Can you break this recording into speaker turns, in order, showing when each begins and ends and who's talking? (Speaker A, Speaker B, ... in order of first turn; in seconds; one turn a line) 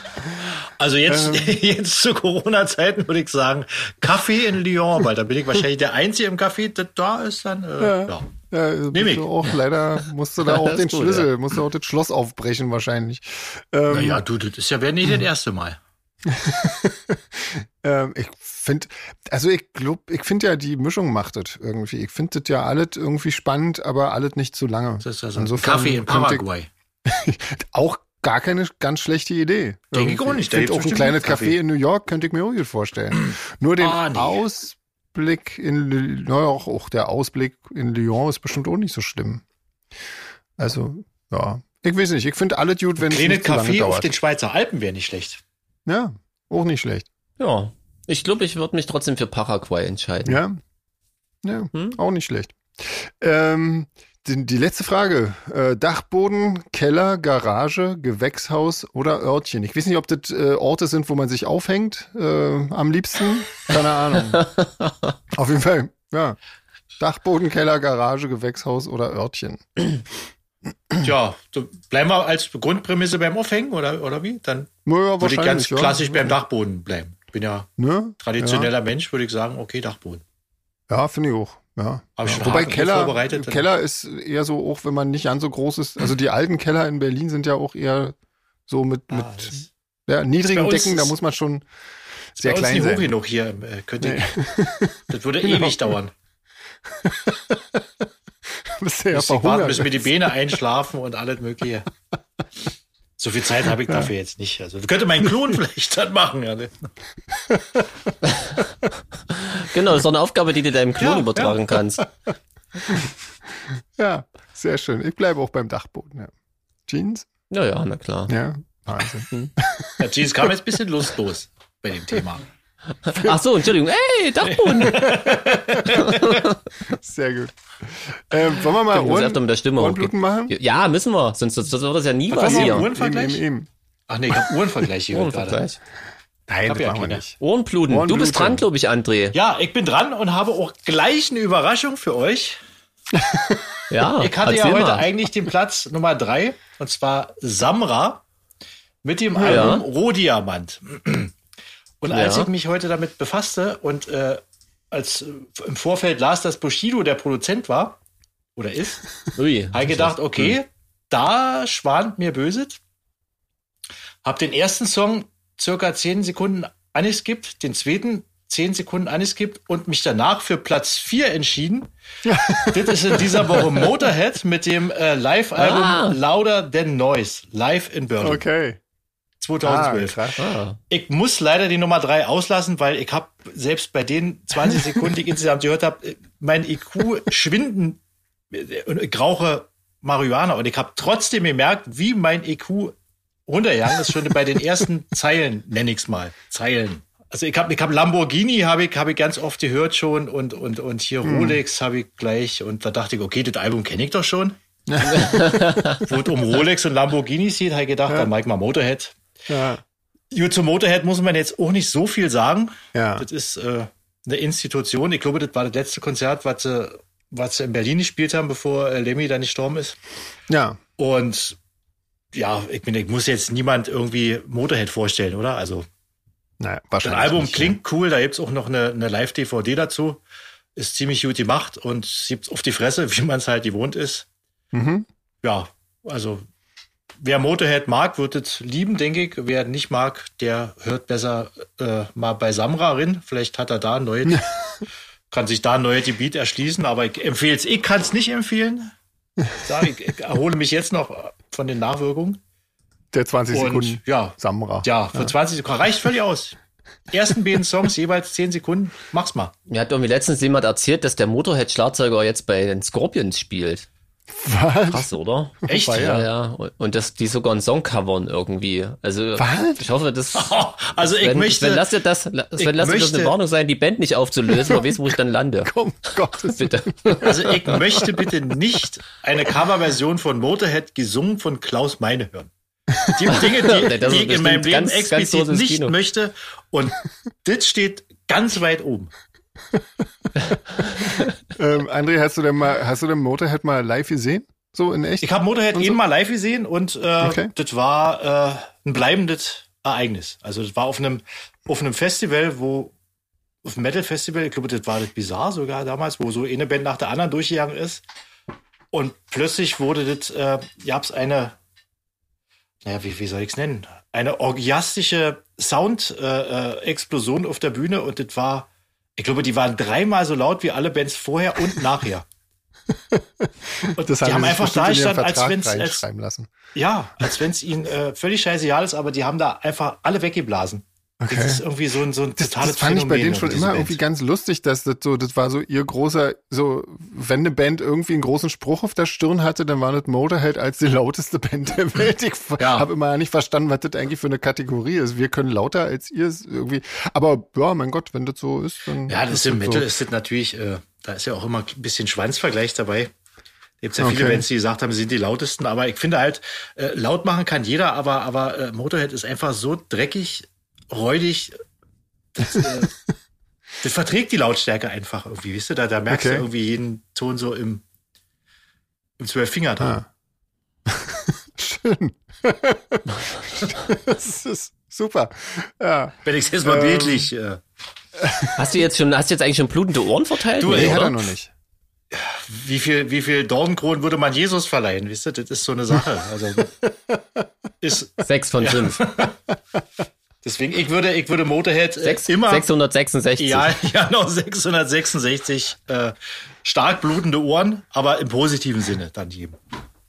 Speaker A: 0.8-8.3
Speaker B: 1.1-1.6
Speaker B: 7.8-14.2
Speaker A: 8.9-9.3
Speaker C: 10.4-11.3
Speaker A: 13.9-15.8
Speaker B: 16.2-26.4
Speaker A: 25.0-26.7
Speaker B: 27.0-39.4
Speaker A: 29.9-31.6
Speaker A: 33.2-34.4
Speaker B: 40.6-44.1
Speaker A: 43.0-45.4
Speaker B: 45.9-47.1
Speaker C: 47.4-50.4
Speaker B: 50.2-50.6
Speaker B: 51.4-64.5
Speaker C: 51.7-52.0
Speaker C: 64.4-64.9
Speaker B: 65.3-66.4
Speaker B: 67.0-70.0
Speaker A: 71.0-77.7
Speaker B: 74.8-76.3
Speaker B: 77.8-78.7
Speaker A: 78.2-80.2
Speaker B: 80.9-88.2
Speaker A: 82.2-83.7
Speaker B: 88.7-89.5
Speaker A: 89.1-89.7
Speaker B: 90.1-91.6
Speaker A: 90.5-91.1
Speaker B: 92.3-93.1
Speaker A: 92.4-94.3
Speaker B: 94.0-96.0
Speaker A: 95.1-96.1
Speaker B: 96.9-97.8
Speaker B: 98.6-100.3
Speaker A: 99.1-101.9
Speaker A: 103.2-106.9
Speaker B: 107.3-108.1
Speaker C: 108.2-108.5
Speaker C: 109.3-112.0
Speaker A: 111.0-111.6
Speaker B: 113.8-116.3
Speaker B: 116.9-117.3
Speaker C: 117.5-118.3
Speaker B: 118.3-120.5
Speaker A: 120.0-122.4
Speaker C: 123.0-125.1
Speaker A: 124.5-126.4
Speaker B: 124.9-125.9
Speaker C: 125.8-126.6
Speaker B: 126.9-130.5
Speaker C: 128.9-132.9
Speaker A: 132.3-133.4
Speaker B: 132.4-133.7
Speaker A: 134.1-135.6
Speaker C: 135.1-135.8
Speaker B: 136.5-137.4
Speaker A: 136.7-137.2
Speaker C: 137.4-139.3
Speaker B: 137.9-138.6
Speaker A: 139.3-142.6
Speaker B: 143.1-143.7
Speaker C: 143.9-145.1
Speaker A: 144.2-148.2
Speaker A: 149.0-151.3
Speaker B: 149.4-149.8
Speaker C: 149.4-149.8
Speaker A: 152.0-158.0
Speaker C: 152.1-152.5
Speaker A: 158.6-159.0
Speaker C: 159.3-160.5
Speaker A: 159.7-162.8
Speaker A: 164.2-171.9
Speaker B: 172.2-173.9
Speaker A: 172.6-178.4
Speaker C: 175.6-176.2
Speaker B: 178.2-178.8
Speaker A: 179.4-180.3
Speaker B: 179.6-180.5
Speaker C: 180.4-180.8
Speaker A: 180.9-188.0
Speaker A: 188.5-192.9
Speaker A: 193.5-205.4
Speaker B: 201.2-201.6
Speaker B: 204.9-206.0
Speaker C: 205.1-206.0
Speaker A: 205.9-209.2
Speaker B: 209.5-209.8
Speaker A: 210.3-220.0
Speaker B: 212.9-213.2
Speaker B: 220.5-220.8
Speaker A: 221.0-221.6
Speaker A: 222.3-225.8
Speaker B: 226.6-227.8
Speaker A: 227.0-230.2
Speaker A: 230.8-234.3
Speaker B: 234.7-235.1
Speaker A: 235.4-236.4
Speaker A: 237.2-244.5
Speaker A: 245.3-248.9
Speaker A: 249.6-252.4
Speaker B: 253.1-255.3
Speaker A: 253.5-256.6
Speaker A: 257.1-259.5
Speaker C: 259.7-263.9
Speaker B: 264.3-265.1
Speaker C: 264.9-275.7
Speaker B: 265.6-266.3
Speaker A: 265.7-266.1
Speaker B: 269.4-269.8
Speaker A: 270.3-271.9
Speaker A: 272.6-273.4
Speaker B: 274.6-274.9
Speaker B: 275.6-278.0
Speaker C: 276.4-277.8
Speaker A: 277.2-282.5
Speaker B: 282.9-283.4
Speaker A: 283.0-289.1
Speaker C: 283.3-285.9
Speaker B: 291.5-296.0
Speaker A: 295.2-302.9
Speaker B: 297.2-297.5
Speaker A: 303.6-308.0
Speaker A: 308.9-311.6
Speaker A: 312.8-322.2
Speaker B: 322.9-326.5
Speaker A: 324.0-326.0
Speaker A: 326.7-334.0
Speaker B: 331.2-331.6
Speaker B: 332.4-349.9
Speaker A: 342.6-342.9
Speaker A: 349.1-353.1
Speaker A: 353.8-361.6
Speaker B: 354.0-354.4
Speaker A: 362.4-362.9
Speaker B: 362.4-362.9
Speaker A: 363.8-367.8
Speaker B: 366.1-366.4
Speaker A: 369.2-370.0
Speaker B: 369.8-370.0
Speaker B: 370.9-377.3
Speaker A: 376.2-377.6
Speaker B: 378.2-378.6
Speaker C: 378.6-381.1
Speaker A: 380.6-381.2
Speaker B: 380.7-381.5
Speaker A: 382.1-386.7
Speaker B: 386.9-387.4
Speaker A: 387.8-389.4
Speaker C: 388.2-389.1
Speaker A: 390.4-392.7
Speaker C: 392.0-393.8
Speaker A: 393.4-399.6